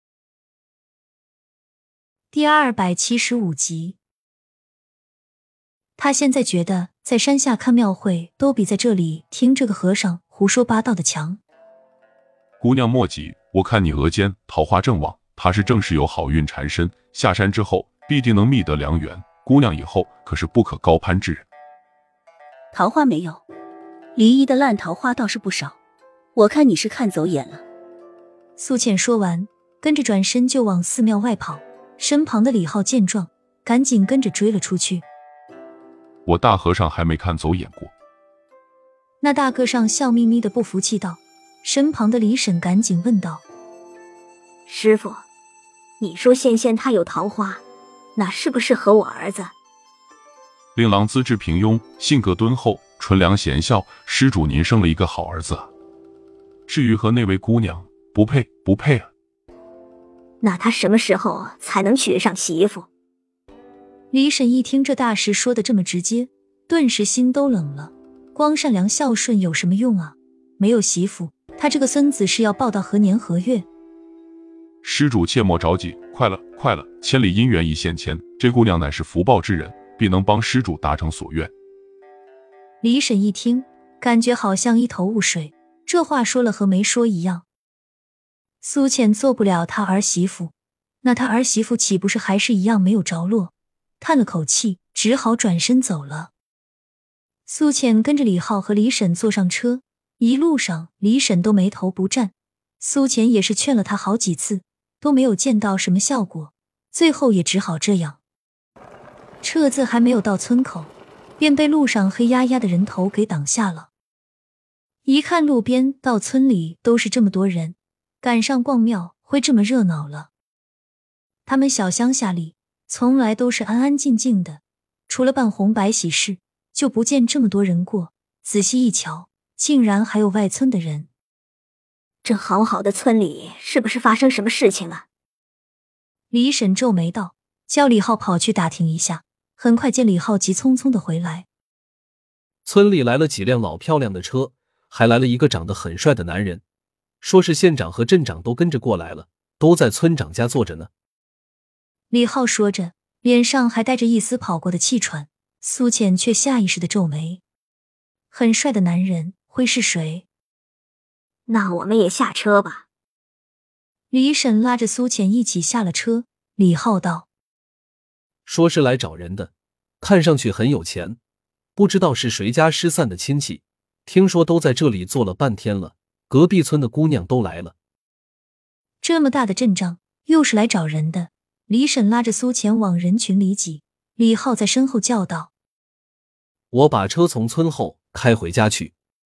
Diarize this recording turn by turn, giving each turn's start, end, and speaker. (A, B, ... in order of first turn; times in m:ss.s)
0:02.3-0:04.0 A
0:06.0-0:11.4 A
0:12.6-0:21.4 B
0:22.7-0:23.4 C
0:24.1-0:25.7 C
0:26.4-0:27.6 C
0:28.6-0:35.0 A
0:36.2-0:37.9 B
0:39.2-0:43.4 A
0:44.7-0:45.2 D
0:46.0-0:47.6 D
0:48.2-0:49.5 D
0:50.7-0:55.7 B
0:56.7-0:59.1 B
1:00.4-1:02.9 D
1:04.1-1:13.6 A
1:14.8-1:21.5 B
1:22.8-1:27.4 A
1:28.6-1:36.3 A
1:37.5-1:48.2 A
1:49.4-1:53.9 A
1:55.0-2:00.3 A
2:01.4-2:11.1 A
2:12.2-2:15.0 D
2:16.3-2:21.5 A
2:22.6-2:26.6 E
2:27.2-2:30.9 E
2:32.1-2:37.4 A
2:38.3-2:40.2 A
2:41.5-2:42.8 D
2:44.1-2:47.3 A
2:48.4-2:51.2 E
2:51.8-2:57.7 E
2:59.0-3:05.5 A
3:06.7-3:08.9 E